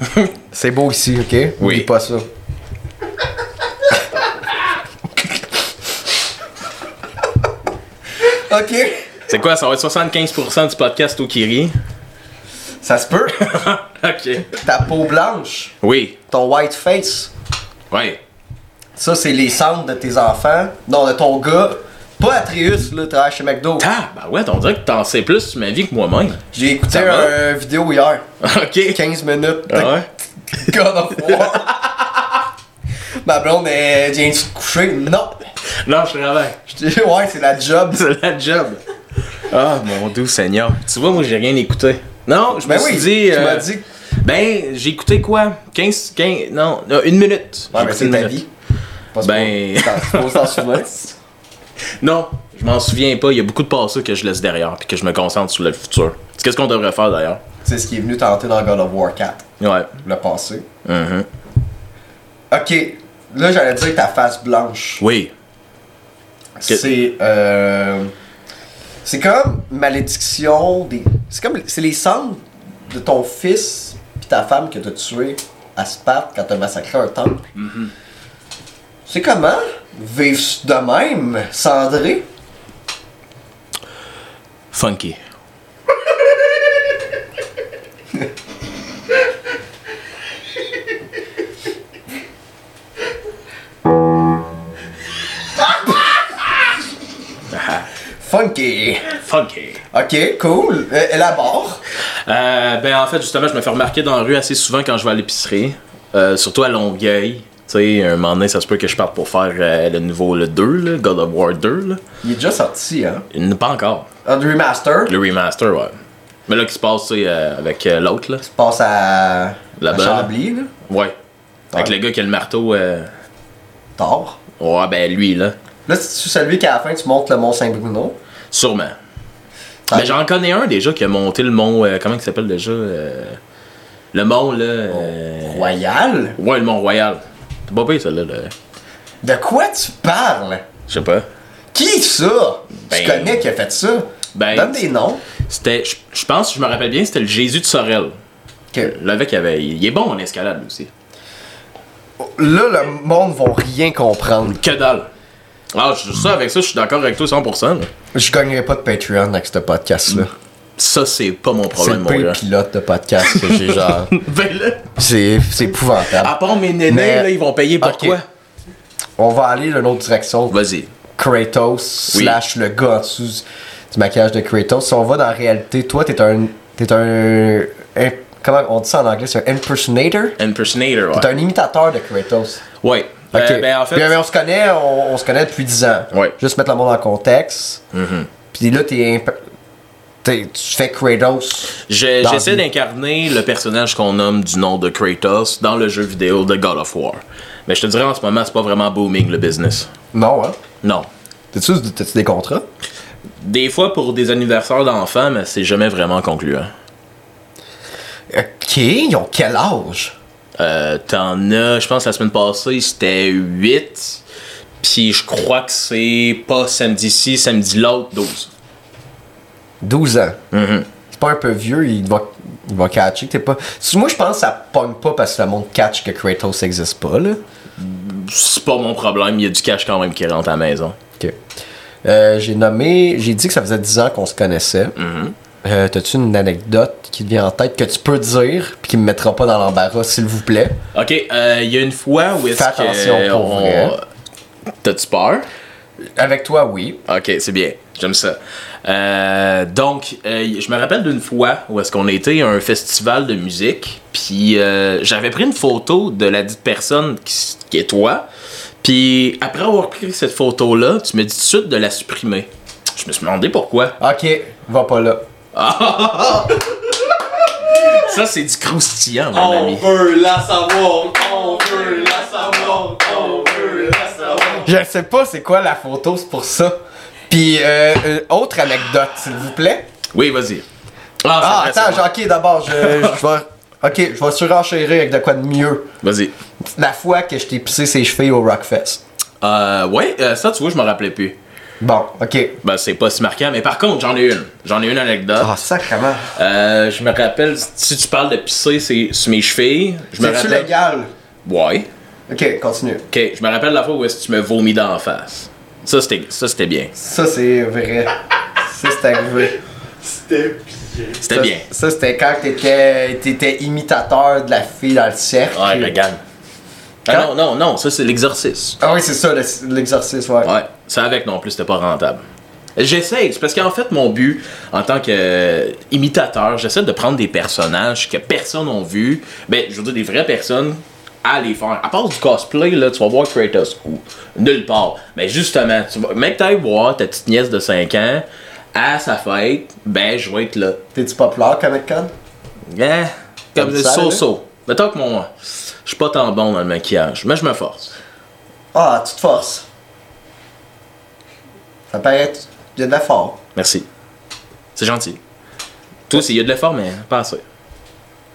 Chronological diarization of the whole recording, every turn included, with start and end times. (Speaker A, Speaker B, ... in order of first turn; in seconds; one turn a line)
Speaker A: 0.5-2.3
Speaker B: 1.6-1.9
Speaker A: 8.2-9.1
Speaker B: 9.3-11.8
Speaker A: 12.8-13.5
Speaker B: 13.4-14.6
Speaker A: 14.5-15.7
Speaker B: 15.8-16.2
Speaker A: 16.3-17.3
Speaker B: 17.9-18.2
Speaker A: 19.0-23.9
Speaker B: 23.8-27.3
Speaker A: 26.5-28.2
Speaker B: 28.4-29.0
Speaker A: 28.9-31.8
Speaker B: 29.7-30.1
Speaker B: 31.2-32.0
Speaker A: 33.2-35.4
Speaker B: 35.6-36.6
Speaker A: 36.7-38.0
Speaker B: 37.9-43.7
Speaker A: 42.6-43.8
Speaker B: 44.2-48.4
Speaker A: 47.7-48.5
Speaker A: 49.1-51.2
Speaker B: 49.2-50.7
Speaker B: 52.0-57.4
Speaker A: 57.6-59.5
Speaker B: 59.6-59.9
Speaker A: 60.0-60.7
Speaker B: 60.9-61.3
Speaker A: 62.5-65.0
Speaker B: 65.0-65.3
Speaker A: 66.6-68.1
Speaker A: 69.0-77.4
Speaker B: 77.6-77.9
Speaker A: 79.1-82.3
Speaker B: 84.7-85.2
Speaker B: 97.5-97.9
Speaker A: 98.2-99.1
Speaker B: 99.2-99.8
Speaker A: 99.9-101.8
Speaker B: 102.3-112.0
Speaker A: 112.2-113.2
Speaker B: 113.3-114.1
Speaker A: 114.2-115.2
Speaker B: 115.1-116.0
Speaker B: 116.5-118.5
Speaker A: 118.4-120.7
Speaker B: 119.8-120.3
Speaker B: 120.8-121.2
Speaker B: 121.7-123.1
Speaker A: 124.0-124.4
Speaker B: 124.6-125.6
Speaker A: 125.9-128.2
Speaker B: 128.5-129.0
Speaker A: 129.9-130.2
Speaker B: 129.9-133.4
Speaker B: 134.1-135.7
Speaker A: 134.9-136.4
Speaker B: 136.4-138.5
Speaker A: 139.2-140.7
Speaker B: 140.9-141.3
Speaker A: 141.7-145.2
Speaker B: 142.8-143.4
Speaker B: 144.3-144.8
Speaker B: 145.5-148.2
Speaker B: 148.8-150.9
Speaker A: 152.2-154.6
Speaker B: 154.5-155.1
Speaker B: 155.7-157.9
Speaker A: 158.1-160.3
Speaker B: 160.8-162.4
Speaker A: 161.8-164.1
Speaker B: 163.3-164.9
Speaker A: 165.0-168.2
Speaker B: 166.1-168.2
Speaker A: 169.2-170.6
Speaker B: 170.5-170.9
Speaker A: 171.2-180.4
Speaker B: 172.1-172.4
Speaker B: 180.4-181.3
Speaker A: 181.1-182.6
Speaker B: 182.8-184.2
Speaker A: 183.3-187.8
Speaker B: 187.9-188.3
Speaker A: 188.5-189.4
Speaker A: 190.2-192.6
Speaker B: 191.8-199.9
Speaker A: 200.1-200.6
Speaker B: 200.8-201.1
Speaker A: 201.5-202.7
Speaker B: 203.4-206.7
Speaker A: 208.3-210.2
Speaker B: 210.6-214.2
Speaker B: 214.8-218.5
Speaker A: 219.8-220.4
Speaker B: 220.5-220.9
Speaker A: 221.1-227.4
Speaker B: 227.8-231.0
Speaker A: 232.0-235.0
Speaker B: 235.0-235.3
Speaker A: 235.6-240.8
Speaker B: 240.9-244.0
Speaker A: 242.5-244.0
Speaker B: 244.8-245.5
Speaker A: 246.2-247.0
Speaker B: 247.1-258.3
Speaker B: 258.8-264.0
Speaker A: 264.0-265.2
Speaker B: 265.5-266.8
Speaker B: 267.5-269.9
Speaker C: 269.3-274.7
Speaker A: 274.5-279.9
Speaker B: 280.1-280.7
Speaker B: 281.2-282.1
Speaker A: 281.4-285.9
Speaker B: 282.7-283.2
Speaker B: 286.0-286.3
Speaker A: 286.7-289.0
Speaker B: 289.4-291.4
Speaker A: 291.8-292.6
Speaker B: 292.6-295.5
Speaker A: 295.4-296.3
Speaker B: 296.3-300.7
Speaker A: 300.2-301.1
Speaker B: 301.4-301.9
Speaker A: 302.3-303.1
Speaker B: 303.1-306.9
Speaker A: 306.9-309.6
Speaker C: 310.0-311.2
Speaker B: 311.2-311.7
Speaker A: 311.3-316.0
Speaker B: 315.5-316.2
Speaker B: 317.1-318.8
Speaker A: 318.8-320.5
Speaker B: 320.4-322.2
Speaker B: 322.8-340.8
Speaker A: 340.9-342.1
Speaker B: 342.7-348.0
Speaker A: 343.6-344.2
Speaker A: 348.7-349.7
Speaker A: 351.9-353.4
Speaker B: 353.6-353.9
Speaker B: 354.8-355.2
Speaker B: 356.1-357.4